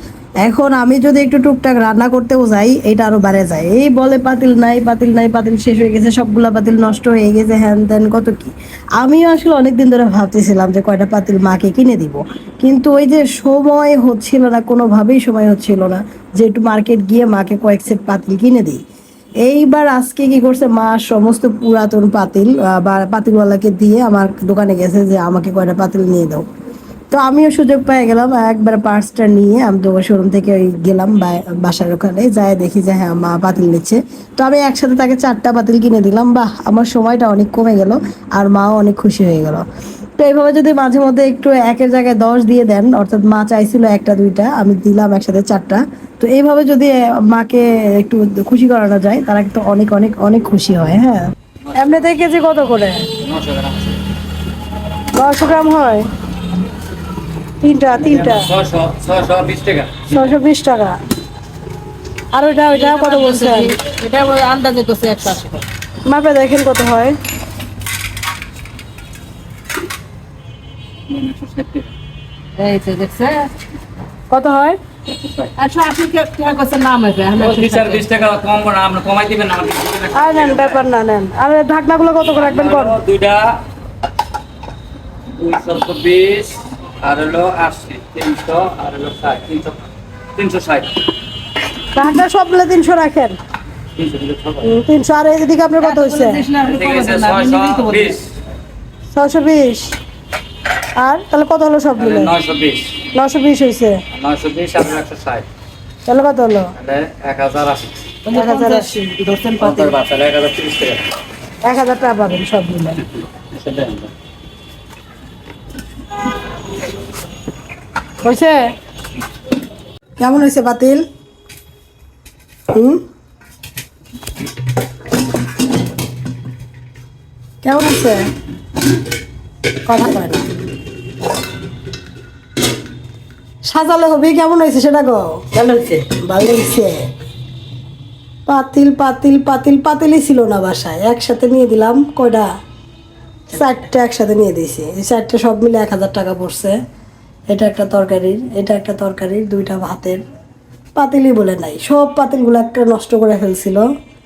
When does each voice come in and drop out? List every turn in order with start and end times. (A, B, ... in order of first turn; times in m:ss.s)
0:00.4-0:18.8 A
0:19.4-0:26.5 A
0:27.1-0:39.6 A
0:40.2-0:53.1 A
0:51.8-0:52.1 B
0:53.2-0:54.0 B
0:55.2-0:56.0 A
0:57.6-0:58.5 A
0:57.9-1:00.2 B
1:00.1-1:01.0 A
1:02.3-1:03.7 A
1:02.7-1:05.6 C
1:06.1-1:07.2 A
1:11.1-1:11.9 B
1:12.6-1:13.5 C
1:14.3-1:14.8 A
1:15.6-1:18.0 C
1:17.4-1:20.8 B
1:20.2-1:23.0 A
1:22.2-1:23.6 B
1:25.4-1:29.8 B
1:30.4-1:31.0 B
1:32.0-1:33.4 A
1:34.0-1:34.7 B
1:34.6-1:36.4 A
1:35.8-1:38.2 C
1:36.6-1:38.3 B
1:39.2-1:40.0 A
1:41.0-1:42.3 A
1:42.0-1:43.1 B
1:43.2-1:44.0 A
1:44.1-1:45.5 B
1:46.1-1:46.7 A
1:46.8-1:47.9 B
1:48.3-1:49.9 C
1:48.3-1:49.0 A
1:49.6-1:51.0 B
1:51.6-1:53.0 A
1:53.5-1:54.1 B
1:58.2-1:58.6 A
2:00.2-2:01.0 A
2:02.7-2:03.0 A
2:07.6-2:08.2 A
2:09.9-2:10.5 A
2:13.7-2:17.1 A
2:18.5-2:22.5 A
2:23.5-2:26.8 A
2:27.5-2:30.2 A
2:31.0-2:33.8 A